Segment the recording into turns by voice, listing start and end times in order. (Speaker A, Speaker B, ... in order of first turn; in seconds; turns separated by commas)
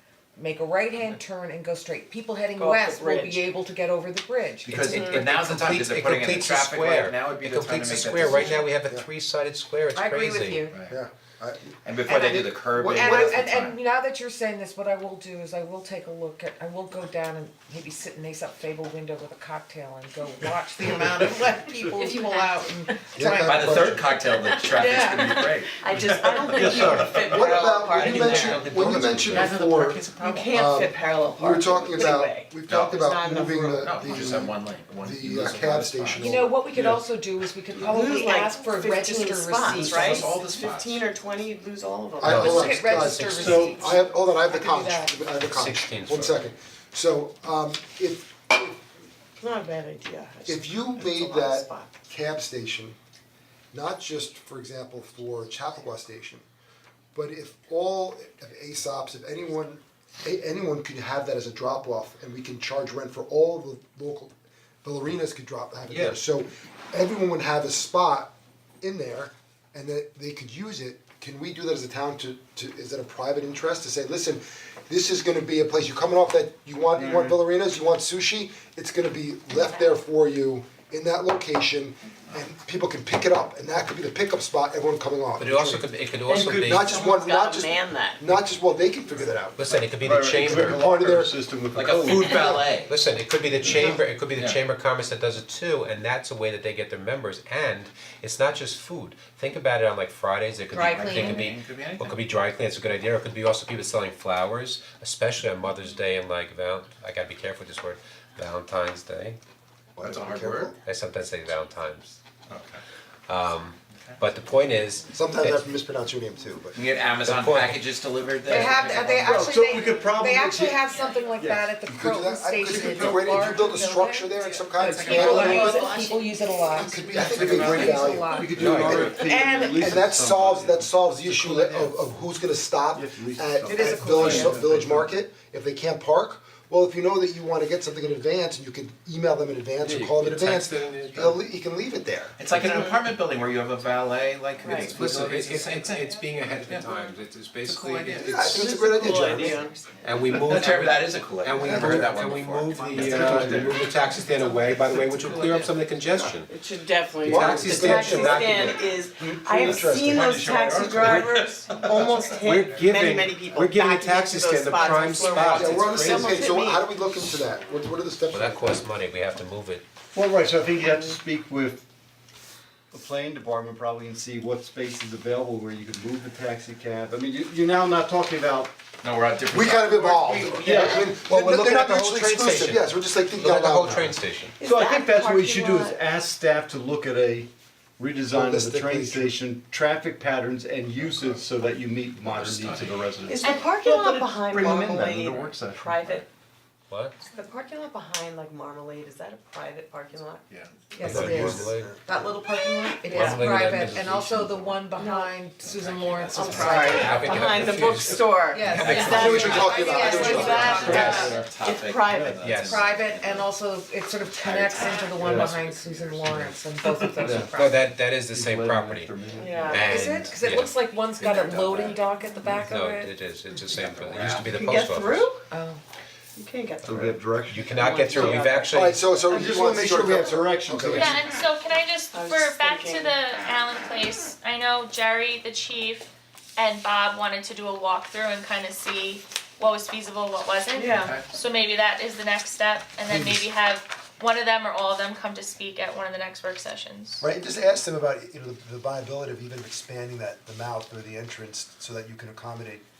Speaker A: 0.4-5.7, Speaker B: 2.6-3.5, Speaker C: 4.7-8.7, Speaker B: 4.8-5.3, Speaker D: 5.3-10.7, Speaker A: 9.9-10.8, Speaker C: 10.7-11.0, Speaker E: 10.9-13.5, Speaker C: 11.8-13.8, Speaker A: 12.1-24.1, Speaker B: 22.0-22.4, Speaker E: 23.1-24.1, Speaker C: 23.3-27.0, Speaker B: 24.2-29.6, Speaker A: 24.7-25.5, Speaker F: 26.5-27.1, Speaker E: 27.2-36.5, Speaker D: 28.0-29.5, Speaker C: 28.0-30.6, Speaker B: 30.2-34.0, Speaker C: 32.7-33.0, Speaker C: 33.8-36.5, Speaker A: 36.2-40.4, Speaker B: 37.7-42.8, Speaker C: 39.8-41.1, Speaker E: 42.2-48.8, Speaker D: 42.2-43.8, Speaker A: 42.5-45.3, Speaker F: 43.4-43.7, Speaker D: 45.5-46.5, Speaker B: 49.4-52.0, Speaker E: 50.5-53.0, Speaker E: 53.7-56.4, Speaker E: 57.1-64.3, Speaker E: 64.8-85.9, Speaker D: 85.4-87.0, Speaker B: 86.3-88.3, Speaker E: 86.4-89.6, Speaker D: 89.6-90.8, Speaker F: 89.9-92.5, Speaker E: 90.5-91.3, Speaker C: 91.7-92.9, Speaker D: 92.8-109.4, Speaker C: 93.6-94.6, Speaker A: 100.7-101.5, Speaker C: 100.9-102.2, Speaker E: 110.0-110.7, Speaker C: 110.0-110.7, Speaker D: 110.8-112.2, Speaker C: 112.5-112.8, Speaker D: 113.3-115.7, Speaker E: 115.1-116.8, Speaker C: 116.7-119.6, Speaker D: 117.2-117.8, Speaker A: 118.5-130.0, Speaker F: 118.5-120.8, Speaker F: 121.4-121.7, Speaker E: 121.9-125.9, Speaker C: 124.8-125.7, Speaker G: 125.1-126.2, Speaker B: 125.7-126.6, Speaker E: 126.7-142.4, Speaker C: 127.1-128.1, Speaker F: 128.2-132.2, Speaker D: 128.5-129.2, Speaker F: 132.9-135.1, Speaker A: 133.7-134.4, Speaker D: 139.8-141.4, Speaker C: 142.4-146.9, Speaker B: 142.6-143.0, Speaker B: 144.6-145.0, Speaker D: 144.8-156.5, Speaker C: 147.7-148.6, Speaker E: 148.2-149.6, Speaker B: 148.5-150.0, Speaker C: 150.2-155.8, Speaker E: 151.6-152.1, Speaker E: 153.0-153.7, Speaker B: 156.5-166.9, Speaker D: 157.2-158.8, Speaker E: 157.2-160.5, Speaker C: 160.0-163.0, Speaker D: 161.0-161.4, Speaker D: 162.3-166.5, Speaker C: 165.1-165.4, Speaker E: 165.4-168.8, Speaker D: 168.3-169.8, Speaker F: 170.1-171.8, Speaker B: 170.8-171.2, Speaker F: 172.9-178.8, Speaker C: 179.0-180.9, Speaker E: 179.5-184.2, Speaker F: 180.6-181.1, Speaker D: 180.8-184.6, Speaker B: 184.6-186.0, Speaker F: 184.6-196.2, Speaker E: 188.3-189.3, Speaker C: 191.0-191.4, Speaker C: 192.2-193.3, Speaker B: 193.3-196.3, Speaker D: 196.9-197.2, Speaker B: 197.3-200.8, Speaker C: 200.5-200.8, Speaker A: 200.9-211.4, Speaker D: 201.0-201.9, Speaker E: 201.1-202.0, Speaker B: 203.1-203.5, Speaker D: 203.1-204.9, Speaker B: 205.0-205.4, Speaker C: 205.7-207.9, Speaker D: 206.2-209.7, Speaker B: 206.3-212.4, Speaker C: 208.8-213.4, Speaker E: 208.9-211.3, Speaker F: 210.8-211.2, Speaker F: 212.1-212.4, Speaker D: 212.4-212.8, Speaker A: 212.5-217.9, Speaker C: 214.4-215.7, Speaker F: 215.2-215.6, Speaker F: 216.2-216.5, Speaker F: 217.2-217.5, Speaker D: 217.2-219.2, Speaker F: 218.3-220.3, Speaker B: 219.4-220.0, Speaker D: 219.7-220.7, Speaker A: 219.8-223.1, Speaker C: 221.2-222.0, Speaker D: 222.5-225.3, Speaker C: 224.0-224.5, Speaker B: 224.3-225.5, Speaker A: 225.5-225.8, Speaker B: 226.3-227.1, Speaker F: 226.8-228.5, Speaker D: 227.5-229.0, Speaker B: 227.7-228.7, Speaker E: 228.7-231.2, Speaker F: 229.2-231.3, Speaker G: 230.9-247.3, Speaker B: 232.1-233.2, Speaker B: 240.7-241.2, Speaker C: 240.9-241.2, Speaker E: 243.1-243.5, Speaker E: 247.2-252.8